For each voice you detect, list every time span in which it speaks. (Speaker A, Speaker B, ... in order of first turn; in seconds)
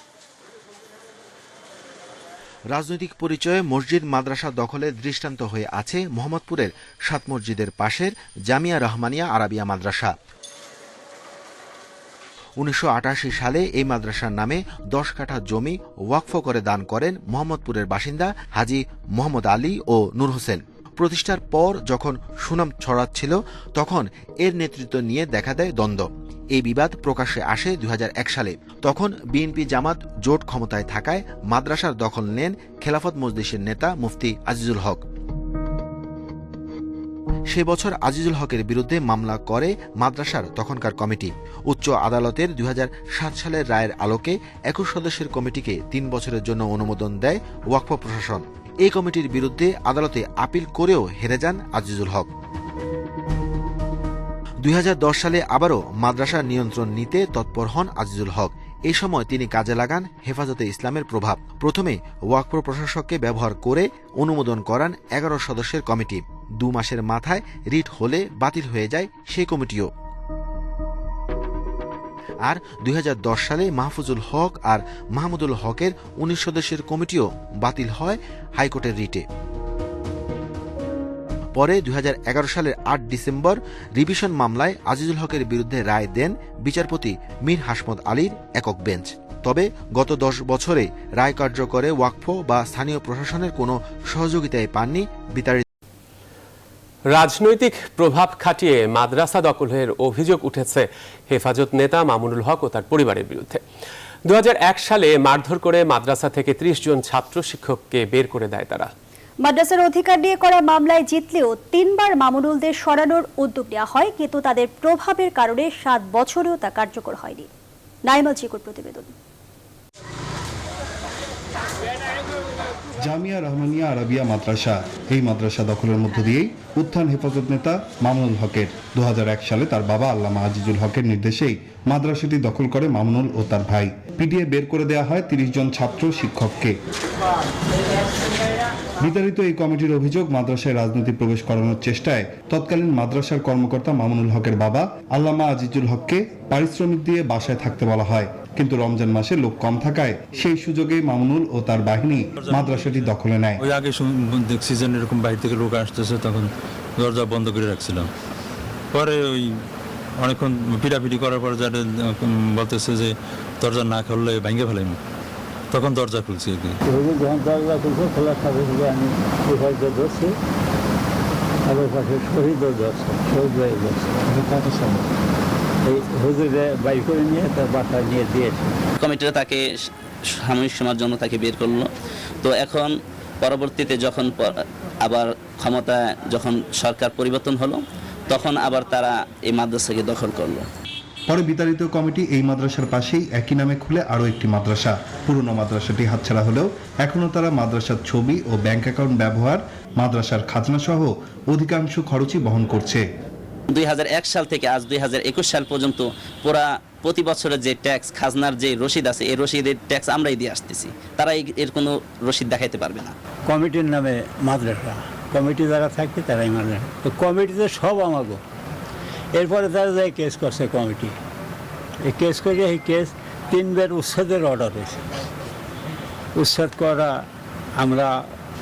Speaker A: 2.7-10.1, 12.6-35.0, 37.5-52.3, 54.6-69.9, 72.5-79.2, 81.5-95.6
Speaker B: 97.1-103.6, 104.3-108.9
Speaker C: 109.4-117.5, 118.0-119.1
Speaker D: 123.0-136.8, 139.0-153.6, 191.3-203.0
Speaker E: 152.4-152.9, 153.6-158.1, 158.9-159.7, 160.2-165.0, 165.7-166.8
Speaker F: 166.8-170.3, 171.7-175.0, 175.8-178.7, 213.5-218.4, 219.3-221.2, 222.1-225.0, 226.4-227.3, 227.8-228.2
Speaker G: 179.0-179.7, 180.4-181.9, 182.4-190.7, 203.7-213.1